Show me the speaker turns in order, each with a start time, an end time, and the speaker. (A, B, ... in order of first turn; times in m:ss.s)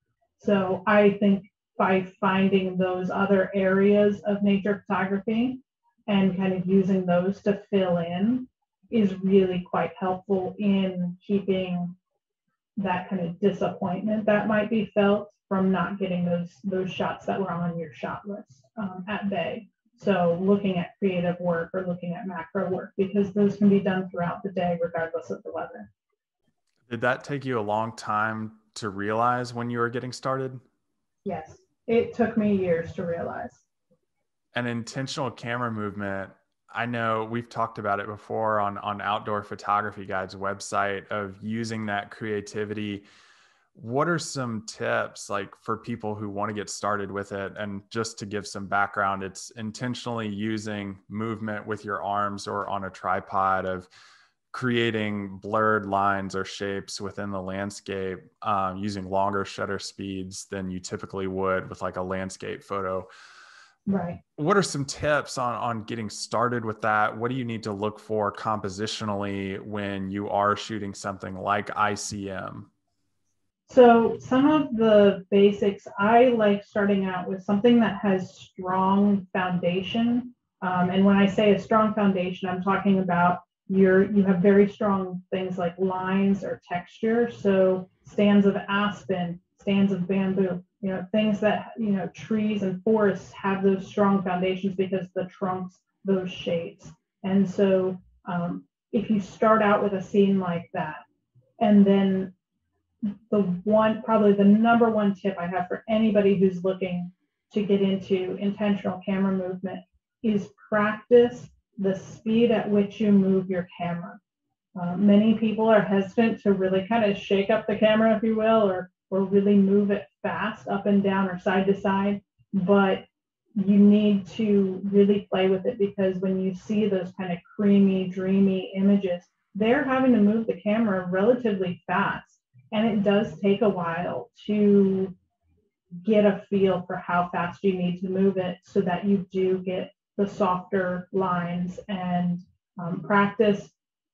0:00.4-0:11.9 A
0:12.8-0:25.9 A
0:26.9-0:30.6 B
0:31.2-0:33.6 A
0:34.5-0:43.0 B
0:43.7-0:53.9 B
0:54.5-1:03.1 B
1:03.9-1:04.2 A
1:04.4-1:12.7 B
1:13.7-1:41.0 A
1:41.6-1:42.3 A
1:43.0-1:54.2 A
1:54.8-2:03.0 A
2:03.6-2:15.1 A
2:16.0-2:23.7 A